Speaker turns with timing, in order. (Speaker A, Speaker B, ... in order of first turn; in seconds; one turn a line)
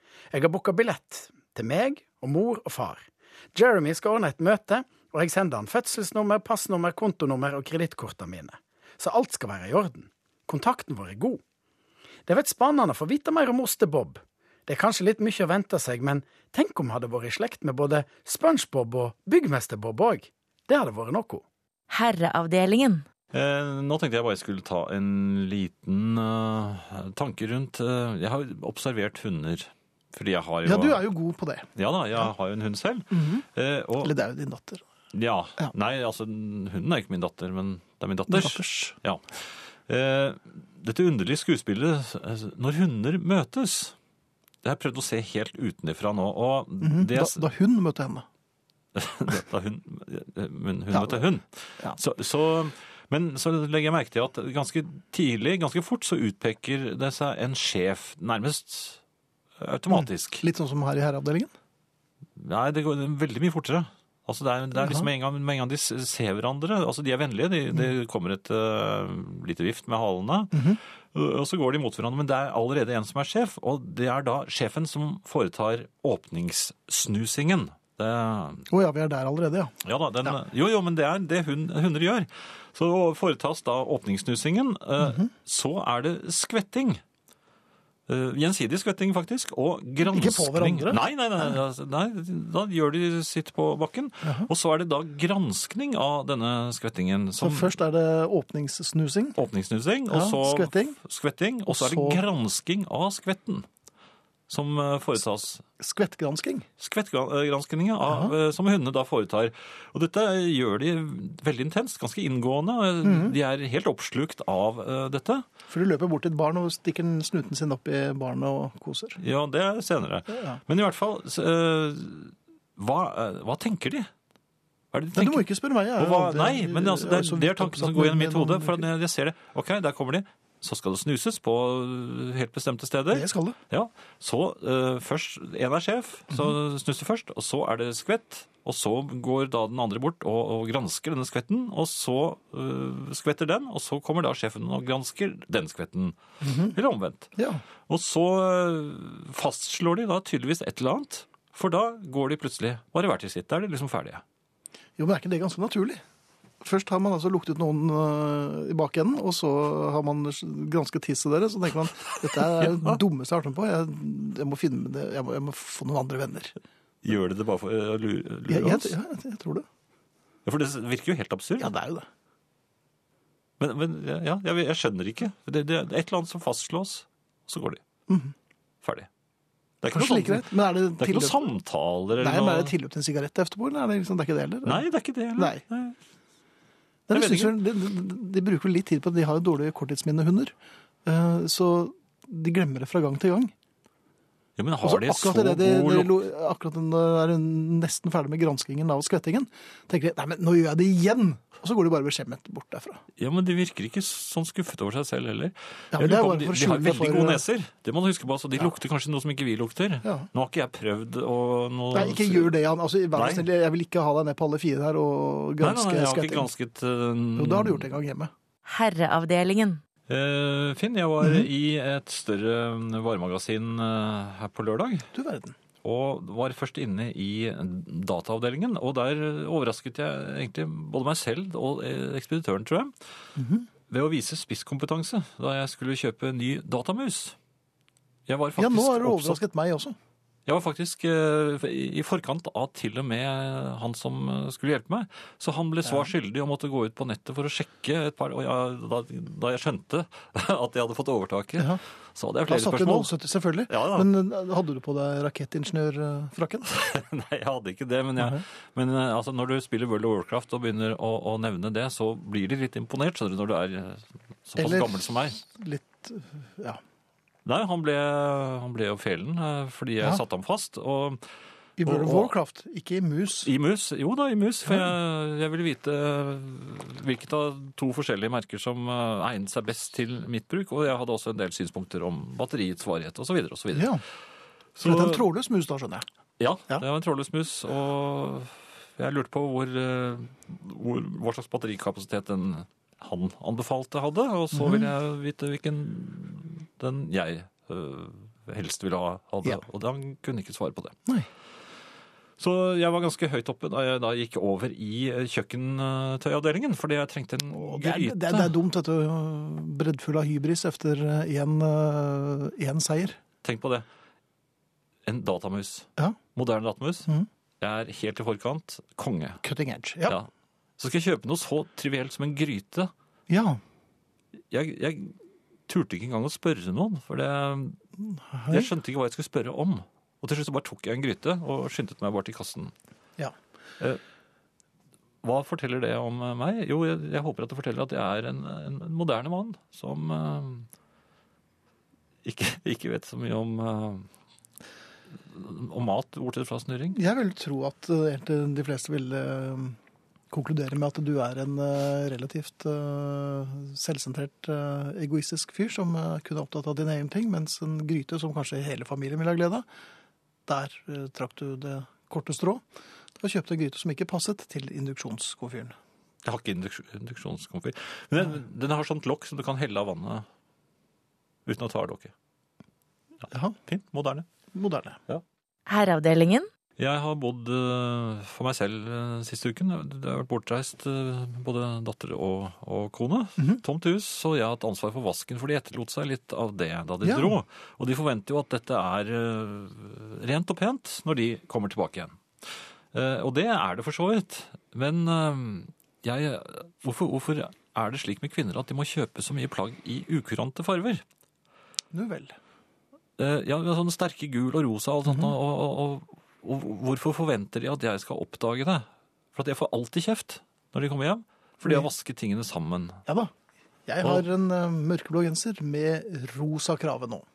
Speaker A: 0.3-11.4
Speaker A: 12.3-21.4
Speaker B: 21.9-23.0
Speaker C: 23.3-31.1
Speaker D: 30.6-31.7
Speaker C: 31.8-34.1
Speaker D: 33.1-33.4
Speaker D: 34.0-34.8
Speaker C: 35.1-43.9
Speaker D: 38.3-38.9
Speaker C: 44.6-47.5
Speaker D: 46.8-48.2
Speaker C: 48.9-59.0
Speaker D: 50.9-51.2
Speaker C: 59.6-60.4
Speaker D: 59.9-61.5
Speaker C: 62.4-78.7
Speaker D: 64.8-65.1
Speaker D: 70.5-70.8
Speaker D: 78.7-79.7
Speaker C: 79.8-87.0
Speaker D: 85.0-85.3
Speaker C: 88.1-97.7
Speaker D: 90.0-91.6
Speaker D: 94.2-94.5
Speaker D: 97.4-99.4
Speaker C: 99.3-103.7
Speaker D: 100.1-101.0
Speaker D: 101.7-102.2
Speaker C: 104.5-105.6
Speaker D: 105.8-106.7
Speaker C: 106.8-115.5
Speaker D: 108.1-108.3
Speaker D: 113.0-113.3
Speaker D: 115.7-119.2
Speaker C: 119.2-124.1
Speaker D: 120.3-120.6
Speaker C: 124.9-147.3
Speaker D: 125.1-128.9
Speaker D: 133.1-133.6
Speaker D: 146.4-146.8
Speaker D: 147.3-147.6
Speaker C: 147.9-154.2
Speaker D: 155.0-156.0
Speaker D: 156.6-166.5
Speaker C: 162.3-162.9
Speaker C: 167.0-168.9
Speaker D: 168.5-169.7
Speaker C: 170.4-171.7
Speaker D: 171.6-172.1
Speaker C: 173.6-177.8
Speaker D: 178.1-178.3
Speaker C: 178.8-179.1
Speaker C: 179.8-182.7
Speaker D: 179.9-181.5
Speaker D: 182.2-184.8
Speaker C: 184.6-186.0
Speaker D: 185.3-185.6
Speaker D: 187.1-193.5
Speaker C: 187.1-187.6
Speaker C: 194.6-196.2
Speaker D: 194.8-203.0
Speaker C: 203.2-212.6
Speaker D: 205.9-207.4
Speaker D: 211.9-216.5
Speaker C: 213.1-213.5
Speaker C: 215.6-217.8
Speaker D: 217.3-218.3
Speaker B: 218.7-219.8
Speaker C: 220.1-225.1
Speaker D: 221.2-221.5
Speaker D: 225.1-225.5
Speaker C: 225.8-232.9
Speaker D: 233.3-233.7
Speaker C: 233.9-237.3
Speaker C: 238.3-239.4
Speaker D: 238.6-239.9
Speaker C: 240.4-253.1
Speaker D: 252.5-256.7
Speaker C: 253.7-254.1
Speaker C: 256.7-265.4
Speaker D: 264.6-266.8
Speaker C: 267.4-271.2
Speaker D: 271.8-273.5
Speaker C: 271.8-272.3
Speaker C: 273.4-284.0
Speaker D: 283.7-284.0
Speaker C: 284.8-285.2
Speaker D: 284.8-286.0
Speaker C: 286.4-301.0
Speaker D: 294.5-294.9
Speaker C: 302.4-308.5
Speaker D: 307.5-313.2
Speaker C: 313.4-313.9
Speaker C: 315.1-317.1
Speaker C: 317.6-319.4
Speaker D: 319.4-320.2
Speaker C: 320.1-322.9
Speaker D: 323.3-323.6
Speaker C: 324.5-327.8
Speaker D: 328.1-328.7
Speaker C: 328.5-332.7
Speaker C: 335.2-340.7
Speaker C: 342.2-344.1
Speaker C: 345.3-347.0
Speaker D: 346.9-349.8
Speaker D: 350.3-359.6
Speaker D: 360.5-362.6
Speaker D: 363.2-365.8
Speaker C: 366.2-370.2
Speaker C: 371.4-372.1
Speaker D: 373.3-373.6
Speaker C: 373.6-374.2
Speaker D: 374.5-375.0
Speaker B: 375.7-376.5
Speaker C: 376.8-392.2
Speaker D: 387.0-387.4
Speaker C: 392.9-401.0
Speaker D: 401.9-402.4
Speaker C: 403.2-413.0
Speaker D: 413.1-413.3
Speaker D: 413.9-417.2